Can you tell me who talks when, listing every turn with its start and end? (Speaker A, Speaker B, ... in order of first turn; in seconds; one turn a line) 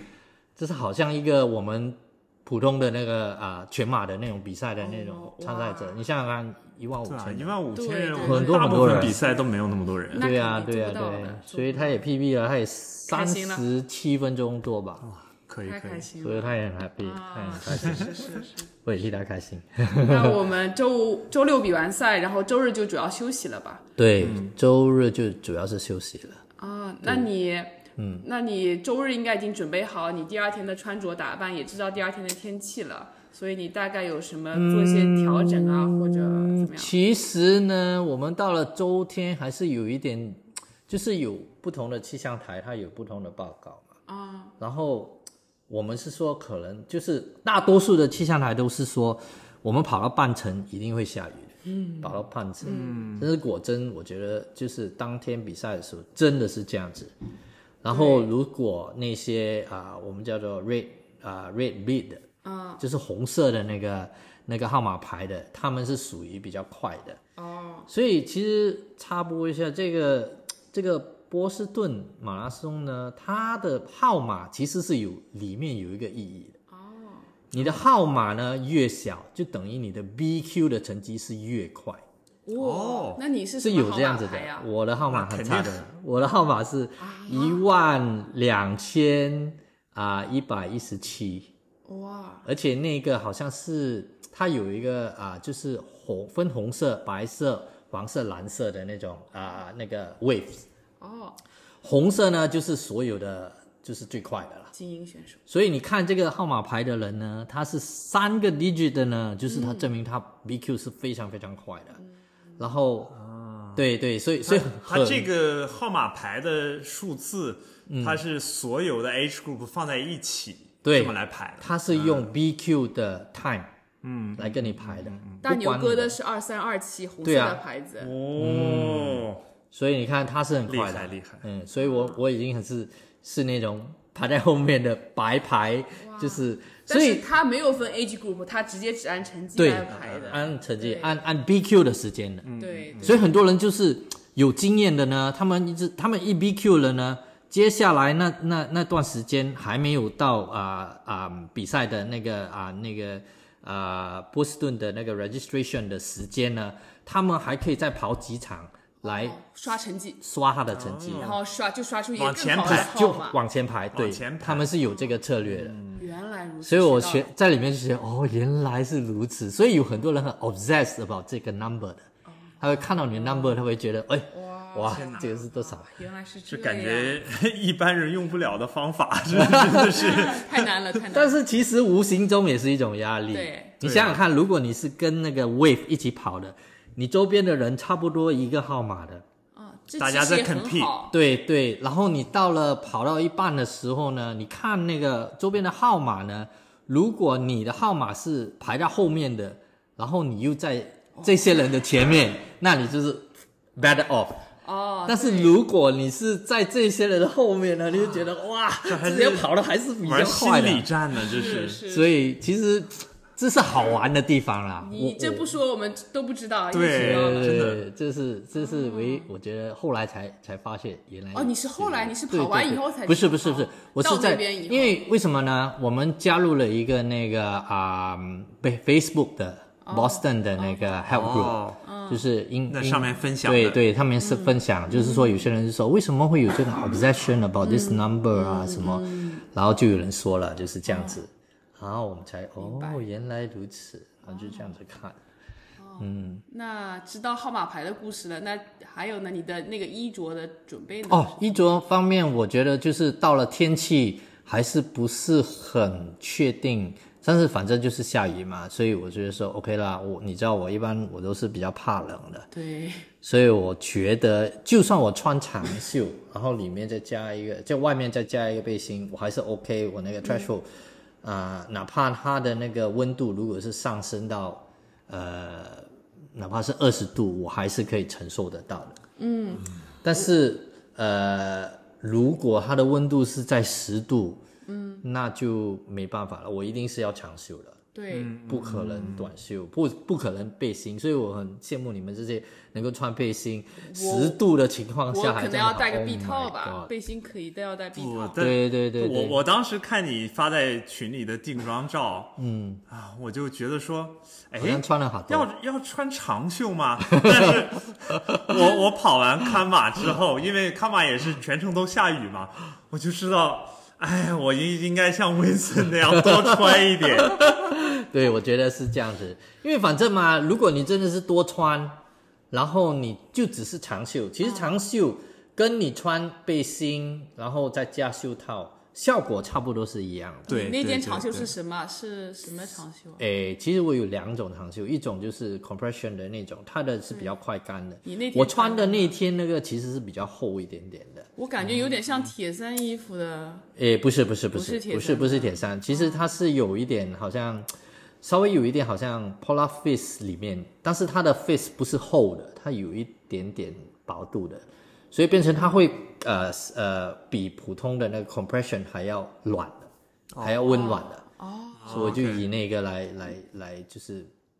Speaker A: 0.6-7.6
Speaker B: 4.8-6.0
Speaker C: 7.0-10.3
Speaker B: 7.7-9.3
Speaker A: 8.2-9.2
Speaker B: 10.1-12.0
Speaker A: 10.1-15.1
Speaker B: 13.1-13.7
Speaker C: 15.0-16.1
Speaker B: 15.6-18.7
Speaker A: 16.2-18.3
Speaker A: 18.8-20.4
Speaker B: 19.9-23.8
Speaker A: 24.0-26.4
Speaker C: 24.2-24.5
Speaker B: 26.6-36.9
Speaker A: 28.0-28.2
Speaker A: 34.5-43.9
Speaker B: 44.1-44.5
Speaker A: 44.6-57.1
Speaker B: 51.6-53.1
Speaker C: 52.6-53.2
Speaker A: 57.8-62.2
Speaker B: 57.9-58.3
Speaker B: 62.4-62.8
Speaker A: 62.8-67.2
Speaker B: 67.4-67.9
Speaker A: 67.9-76.6
Speaker B: 76.7-77.3
Speaker A: 77.5-82.0
Speaker B: 82.5-84.7
Speaker C: 82.5-83.2
Speaker A: 83.6-91.5
Speaker C: 85.1-85.8
Speaker B: 87.0-87.6
Speaker B: 91.8-92.5
Speaker A: 92.4-100.6
Speaker B: 101.0-101.4
Speaker A: 101.8-104.7
Speaker B: 104.7-105.4
Speaker A: 105.5-112.0
Speaker B: 109.5-109.9
Speaker A: 112.6-113.2
Speaker C: 113.1-113.8
Speaker A: 113.8-115.3
Speaker C: 114.4-122.3
Speaker A: 117.9-118.2
Speaker A: 120.8-123.7
Speaker C: 124.0-125.4
Speaker A: 124.3-126.2
Speaker B: 125.4-128.1
Speaker A: 127.2-127.6
Speaker C: 128.0-129.4
Speaker A: 128.3-137.3
Speaker C: 130.7-131.4
Speaker B: 131.8-132.2
Speaker B: 136.0-141.2
Speaker A: 139.6-142.5
Speaker C: 139.9-140.4
Speaker C: 142.4-143.3
Speaker B: 142.6-143.3
Speaker A: 143.0-159.4
Speaker B: 159.0-160.2
Speaker A: 160.2-161.3
Speaker C: 160.7-161.4
Speaker B: 161.2-163.4
Speaker C: 162.2-162.9
Speaker A: 162.6-165.8
Speaker C: 163.9-164.7
Speaker C: 165.5-166.0
Speaker B: 166.0-167.3
Speaker A: 166.6-172.1
Speaker B: 172.3-173.6
Speaker A: 172.6-175.9
Speaker B: 174.3-177.2
Speaker C: 174.9-175.3
Speaker C: 176.5-180.7
Speaker A: 179.3-179.9
Speaker B: 179.7-181.4
Speaker A: 181.1-189.2
Speaker B: 183.3-183.7
Speaker C: 183.8-184.2
Speaker B: 189.5-191.2
Speaker C: 190.0-190.9
Speaker A: 191.1-204.4
Speaker B: 204.6-205.6
Speaker A: 205.1-210.9
Speaker C: 208.9-209.5
Speaker C: 210.0-211.8
Speaker B: 211.1-212.1
Speaker A: 211.8-215.5
Speaker B: 214.8-217.5
Speaker C: 216.7-217.8
Speaker A: 216.9-245.2
Speaker B: 218.6-219.3
Speaker B: 221.3-225.0
Speaker B: 229.8-230.9
Speaker C: 231.1-231.8
Speaker B: 231.8-232.2
Speaker C: 232.7-233.8
Speaker B: 234.2-235.3
Speaker B: 237.6-239.4
Speaker B: 240.9-241.2
Speaker B: 242.6-243.0
Speaker B: 244.3-244.7
Speaker B: 245.8-251.6
Speaker A: 246.0-246.4
Speaker A: 251.1-262.5
Speaker B: 262.5-263.1
Speaker A: 263.2-270.7
Speaker A: 271.2-279.0
Speaker B: 279.2-279.6
Speaker A: 280.0-284.4
Speaker B: 284.6-285.0
Speaker A: 285.0-287.8
Speaker B: 287.9-288.4
Speaker C: 288.1-289.3
Speaker A: 288.4-296.9
Speaker B: 293.8-294.4
Speaker B: 295.1-298.4
Speaker C: 297.9-302.4
Speaker A: 298.4-299.4
Speaker A: 302.4-302.8
Speaker C: 302.9-317.6
Speaker A: 304.6-305.5
Speaker A: 307.1-307.6
Speaker A: 316.1-330.5
Speaker B: 324.4-324.7
Speaker C: 330.5-331.5
Speaker B: 330.5-333.2
Speaker A: 333.2-341.3
Speaker B: 338.0-339.1
Speaker B: 341.4-343.7
Speaker A: 343.8-347.7
Speaker B: 344.5-346.2
Speaker A: 348.2-361.2
Speaker C: 360.3-360.6
Speaker B: 360.6-362.1
Speaker C: 361.8-362.5
Speaker A: 361.9-364.3